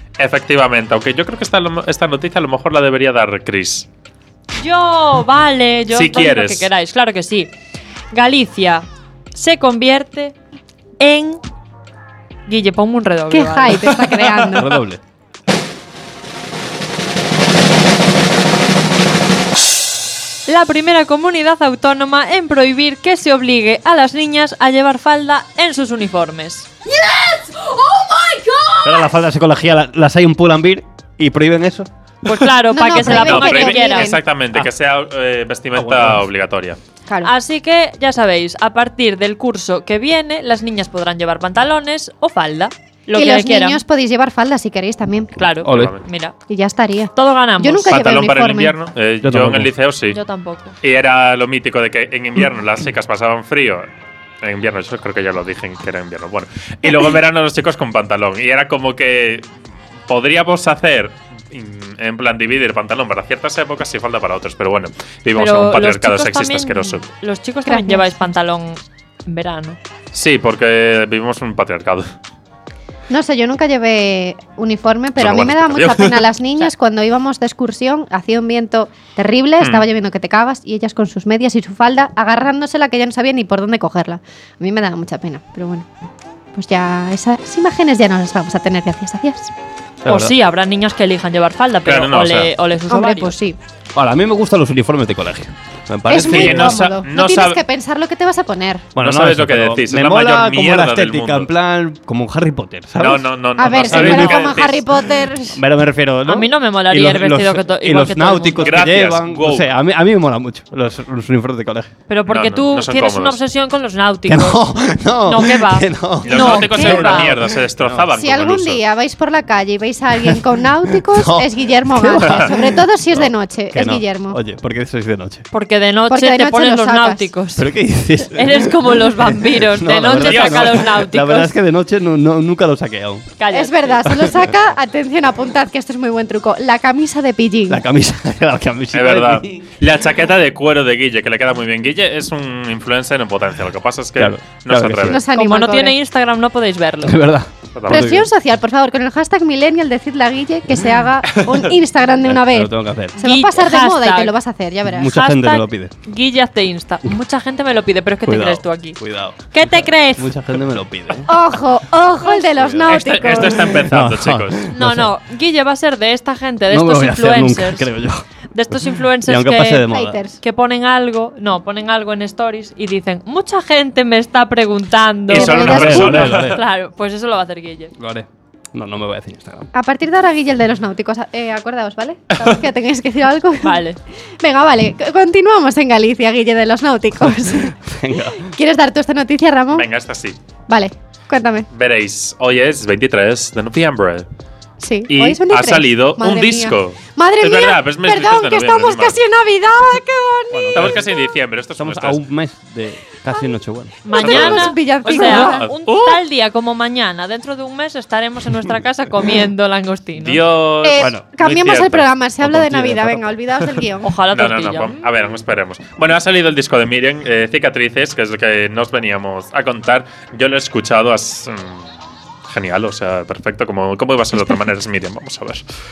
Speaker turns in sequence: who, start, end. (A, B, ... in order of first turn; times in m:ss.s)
0:00.2-0:03.9 A
0:04.6-0:07.5 B
0:05.9-0:06.7 A
0:08.1-0:10.4 B
0:11.0-0:11.4 B
0:12.5-0:13.9 B
0:13.3-0:14.8 C
0:14.6-0:15.0 D
0:20.5-0:26.7 B
0:28.8-0:31.9 D
0:32.2-0:34.2 B
0:32.7-0:34.2 C
0:33.0-0:36.8 A
0:35.7-0:36.2 D
0:37.2-0:43.8 B
0:43.2-0:45.3 C
0:45.4-0:46.4 B
0:45.6-0:45.9 D
0:45.6-0:46.0 A
0:46.5-0:48.7 C
0:47.2-0:48.0 B
0:47.9-0:50.2 A
0:49.2-0:49.7 D
0:50.1-0:50.7 B
0:50.8-0:53.9 A
0:54.4-0:59.5 A
1:00.1-1:07.0 A
1:05.4-1:09.8 B
1:07.7-1:08.3 C
1:10.1-1:12.1 A
1:13.1-1:25.9 C
1:15.2-1:16.3 A
1:19.6-1:19.9 A
1:26.6-1:29.5 C
1:30.0-1:30.3 D
1:30.1-1:33.4 B
1:31.9-1:32.5 A
1:32.9-1:33.6 C
1:34.0-1:36.9 D
1:36.1-1:38.9 C
1:36.2-1:37.6 A
1:39.0-1:44.6 D
1:39.0-1:41.5 A
1:43.0-1:44.9 A
1:43.6-1:45.6 C
1:45.5-1:51.9 D
1:46.3-1:48.7 B
1:48.6-1:49.7 A
1:52.1-1:54.6 B
1:52.3-1:53.4 A
1:54.3-1:58.1 D
1:55.2-1:57.3 B
1:56.3-1:58.8 A
1:58.2-2:04.4 C
2:00.9-2:05.5 D
2:05.5-2:07.7 B
2:06.1-2:07.3 C
2:07.6-2:13.3 D
2:08.3-2:11.5 B
2:10.2-2:10.9 A
2:13.4-2:14.0 B
2:13.5-2:17.8 C
2:17.7-2:19.6 D
2:18.9-2:25.2 A
2:24.2-2:25.2 D
2:25.0-2:26.0 C
2:25.4-2:27.2 B
2:27.0-2:28.3 D
2:27.8-2:28.0 A
2:27.9-2:35.1 C
2:32.2-2:33.2 D
2:33.2-2:34.4 B
2:34.8-2:35.9 D
2:35.1-2:39.0 B
2:38.3-2:41.3 D
2:39.5-2:40.3 B
2:41.3-2:43.9 C
2:42.6-2:45.1 D
2:42.9-2:44.6 A
2:44.7-2:47.9 B
2:46.7-2:50.2 D
2:48.5-2:49.9 B
2:49.9-2:50.4 C
2:50.4-2:57.9 B
2:55.3-2:56.3 C
2:55.3-2:56.6 A
2:55.6-2:56.6 D
2:58.0-2:59.7 D
2:59.7-3:03.8 C
3:03.6-3:04.0 B
3:04.4-3:07.7 C
3:07.2-3:08.5 D
3:08.4-3:09.9 C
3:09.7-3:10.4 A
3:10.7-3:11.7 C
3:11.7-3:14.3 A
3:14.8-3:21.0 C
3:15.1-3:19.2 A
3:20.5-3:21.0 D
3:20.8-3:22.2 A
3:21.8-3:24.0 D
3:24.0-3:30.4 B
3:24.1-3:25.7 C
3:24.1-3:26.2 A
3:30.2-3:32.0 A
3:30.8-3:34.1 C
3:31.0-3:33.4 D
3:34.0-3:35.0 B
3:34.3-3:41.9 A
3:42.5-3:45.6 A